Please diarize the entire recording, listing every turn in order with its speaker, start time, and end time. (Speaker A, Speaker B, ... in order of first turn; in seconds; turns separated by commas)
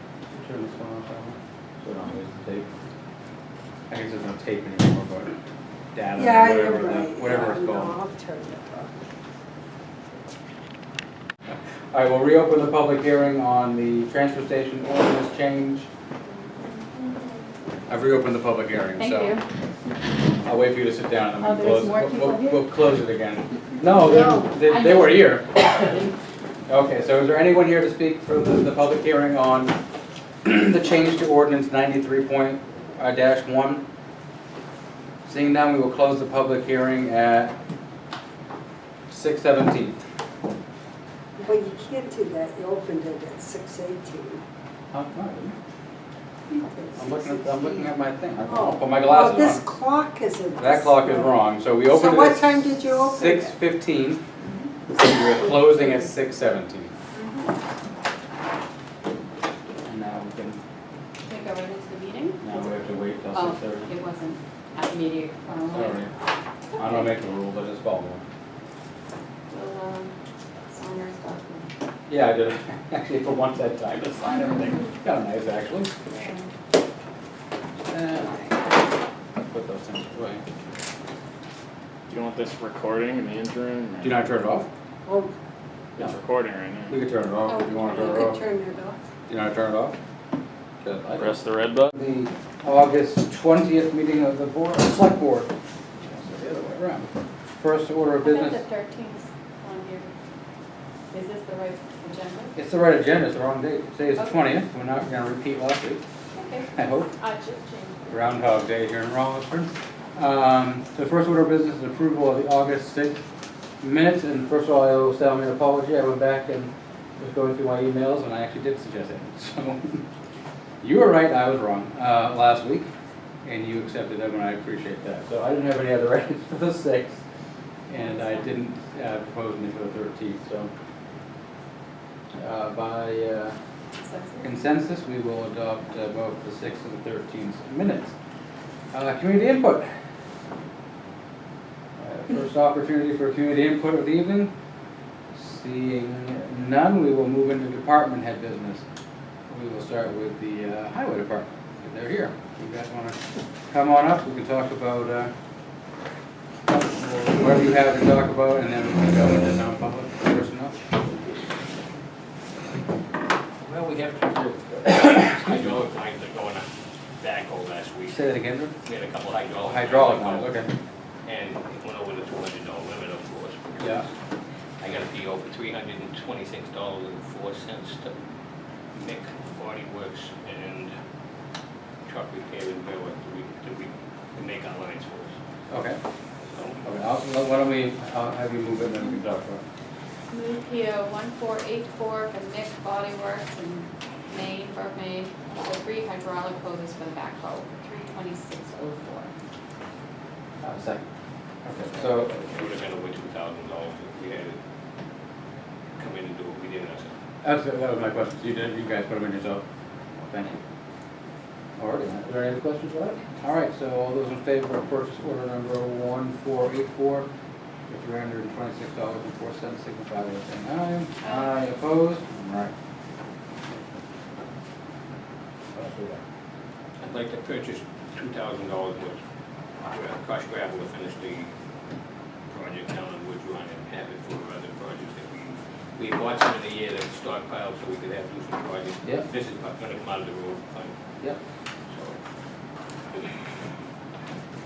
Speaker A: 0.3-2.7, Speaker A: 3.9-5.3, Speaker A: 5.9-8.0, Speaker B: 6.2-8.9, Speaker A: 11.5-15.9, Speaker C: 16.7-17.2, Speaker A: 17.9-19.4, Speaker C: 19.0-19.4, Speaker A: 20.4-26.1, Speaker C: 21.4-22.7, Speaker C: 24.2-26.1, Speaker A: 26.7-29.7, Speaker A: 30.4-33.8, Speaker A: 35.3-37.5, Speaker A: 39.1-40.0, Speaker B: 41.4-44.4, Speaker A: 44.9-45.6, Speaker B: 46.5-47.9, Speaker A: 47.0-49.6, Speaker B: 48.4-53.5, Speaker A: 50.6-54.2, Speaker A: 54.9-56.9, Speaker C: 57.1-57.5, Speaker A: 59.9-60.6, Speaker C: 61.2-62.4, Speaker A: 62.4-63.9, Speaker C: 63.3-66.0, Speaker A: 65.6-66.1, Speaker C: 66.7-67.1, Speaker A: 66.8-68.2, Speaker C: 69.5-70.1, Speaker C: 70.7-71.7, Speaker A: 72.1-75.9, Speaker C: 76.1-76.5, Speaker A: 77.9-78.7, Speaker A: 79.4-80.4, Speaker D: 82.1-84.3, Speaker A: 84.0-84.7, Speaker B: 85.1-85.3, Speaker D: 86.0-87.0, Speaker A: 86.9-88.4, Speaker B: 87.5-89.0, Speaker A: 89.3-90.0, Speaker A: 90.8-91.3, Speaker D: 91.2-91.9, Speaker A: 91.9-95.5, Speaker A: 96.0-97.1, Speaker A: 97.6-98.6, Speaker C: 98.2-100.1, Speaker C: 101.1-102.5, Speaker A: 102.5-106.0, Speaker C: 106.3-108.3, Speaker A: 106.8-107.1, Speaker A: 108.1-113.2, Speaker A: 113.8-120.0, Speaker A: 120.8-122.9, Speaker A: 123.4-127.2, Speaker A: 127.9-130.7, Speaker C: 127.9-128.5, Speaker A: 132.4-133.6, Speaker C: 134.0-134.5, Speaker A: 134.4-138.2, Speaker A: 138.9-139.9, Speaker A: 142.0-144.5, Speaker A: 145.3-148.8, Speaker A: 149.5-153.2, Speaker A: 153.7-155.3, Speaker A: 156.7-160.8, Speaker E: 163.7-166.7, Speaker A: 164.9-165.6, Speaker E: 167.2-168.2, Speaker A: 168.1-168.8, Speaker E: 168.8-170.6, Speaker A: 169.6-170.7, Speaker E: 171.3-174.1, Speaker A: 173.8-174.1, Speaker E: 174.8-178.2, Speaker E: 178.9-180.9, Speaker E: 182.1-185.3, Speaker A: 185.7-186.0, Speaker E: 186.5-186.8, Speaker A: 186.8-189.6, Speaker C: 190.3-199.3, Speaker A: 200.6-201.0, Speaker A: 201.7-202.4, Speaker E: 202.0-204.6, Speaker E: 206.0-207.1, Speaker A: 207.4-209.6, Speaker A: 210.2-210.6, Speaker A: 211.8-217.3, Speaker A: 217.9-222.7, Speaker C: 221.2-221.6, Speaker A: 225.7-226.2, Speaker E: 227.0-229.2, Speaker E: 229.9-231.5, Speaker E: 232.5-240.9, Speaker E: 241.9-242.2